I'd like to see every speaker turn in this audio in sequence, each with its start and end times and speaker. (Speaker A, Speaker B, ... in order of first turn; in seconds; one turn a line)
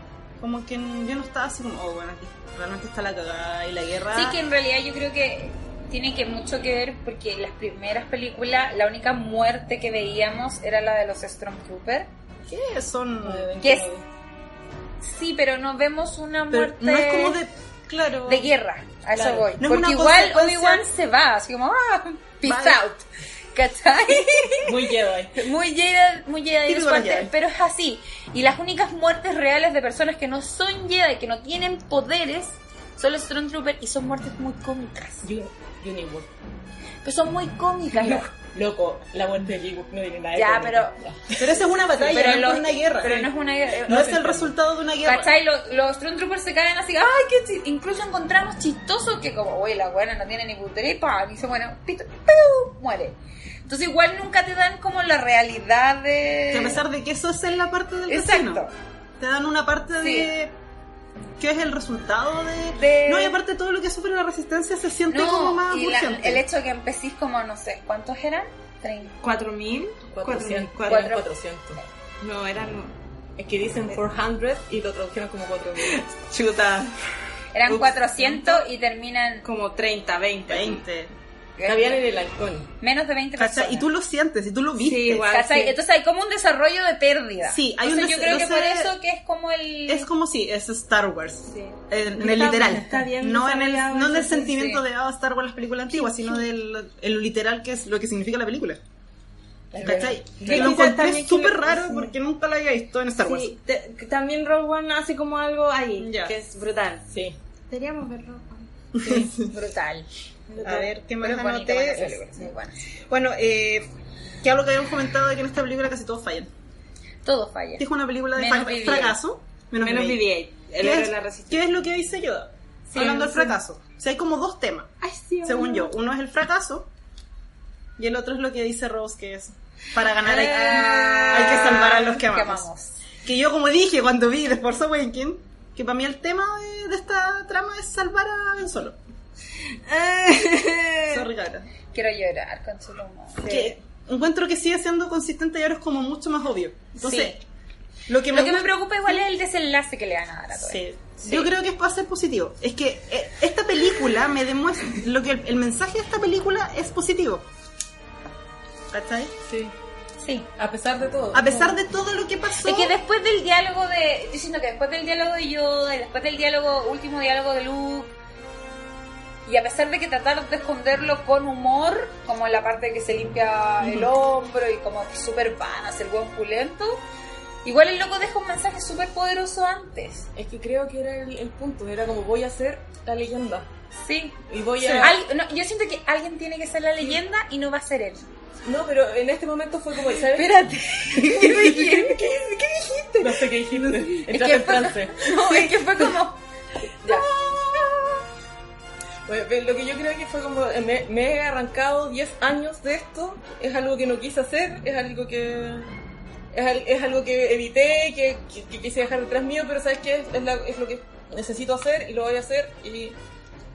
Speaker A: 0.4-4.4
Speaker B: 4.1-12.1
Speaker A: 12.5-13.5
Speaker C: 13.2-14.1
Speaker B: 13.6-13.9
Speaker B: 15.0-17.4
Speaker A: 16.5-18.5
Speaker B: 18.3-24.7
Speaker C: 19.2-19.4
Speaker A: 19.5-20.9
Speaker A: 22.4-22.8
Speaker C: 24.6-25.3
Speaker B: 25.4-35.3
Speaker A: 26.7-27.3
Speaker C: 35.2-36.3
Speaker B: 37.0-38.3
Speaker C: 37.9-41.7
Speaker B: 40.3-41.0
Speaker A: 41.4-43.3
Speaker B: 42.0-44.3
Speaker A: 43.9-45.3
Speaker C: 43.9-44.5
Speaker B: 45.0-56.8
Speaker A: 56.5-58.6
Speaker B: 58.1-58.7
Speaker A: 59.2-60.5
Speaker B: 60.0-60.3
Speaker A: 61.4-66.5
Speaker B: 62.8-63.4
Speaker B: 65.1-69.2
Speaker D: 69.2-71.2
Speaker C: 70.1-71.8
Speaker B: 70.9-71.3
Speaker D: 72.2-72.9
Speaker C: 73.4-76.1
Speaker D: 75.8-76.9
Speaker B: 77.5-79.5
Speaker D: 77.7-78.6
Speaker D: 79.4-80.8
Speaker A: 80.5-81.1
Speaker B: 81.6-82.1
Speaker C: 81.6-82.7
Speaker B: 82.8-83.9
Speaker A: 83.4-85.3
Speaker D: 84.8-85.8
Speaker B: 85.3-90.1
Speaker A: 87.5-89.0
Speaker A: 89.9-98.8
Speaker D: 91.5-94.7
Speaker C: 99.7-100.8
Speaker A: 99.8-103.5
Speaker D: 100.4-102.1
Speaker D: 103.2-107.1
Speaker A: 106.0-106.3
Speaker C: 107.1-107.4
Speaker D: 107.7-108.7
Speaker A: 108.9-109.5
Speaker B: 109.1-110.1
Speaker D: 110.5-110.9
Speaker A: 110.6-112.4
Speaker B: 111.2-112.9
Speaker A: 113.1-113.9
Speaker A: 114.4-116.5
Speaker B: 117.2-119.2
Speaker A: 117.8-120.2
Speaker D: 119.8-121.7
Speaker A: 120.8-124.9
Speaker B: 122.9-123.4
Speaker D: 123.0-123.5
Speaker D: 125.0-125.9
Speaker A: 125.4-126.9
Speaker A: 128.0-132.7
Speaker D: 130.2-132.1
Speaker B: 130.4-133.0
Speaker A: 133.2-139.0
Speaker D: 139.9-141.3
Speaker A: 141.1-141.7
Speaker B: 141.9-143.7
Speaker A: 143.5-147.4
Speaker B: 147.0-147.4
Speaker A: 148.1-148.7
Speaker B: 148.3-151.5
Speaker A: 150.6-157.4
Speaker A: 158.9-159.3
Speaker C: 159.5-159.7
Speaker B: 160.2-160.5
Speaker C: 160.6-161.8
Speaker A: 161.3-162.9
Speaker B: 162.6-168.1
Speaker B: 169.5-177.0
Speaker B: 177.6-180.3
Speaker C: 180.4-183.7
Speaker B: 184.0-184.4
Speaker C: 184.5-185.2
Speaker A: 184.8-185.1
Speaker B: 184.9-188.2
Speaker C: 188.7-190.6
Speaker B: 190.3-196.4
Speaker C: 191.2-192.4
Speaker C: 193.2-196.1
Speaker C: 197.0-198.2
Speaker C: 199.3-205.9
Speaker C: 206.5-213.2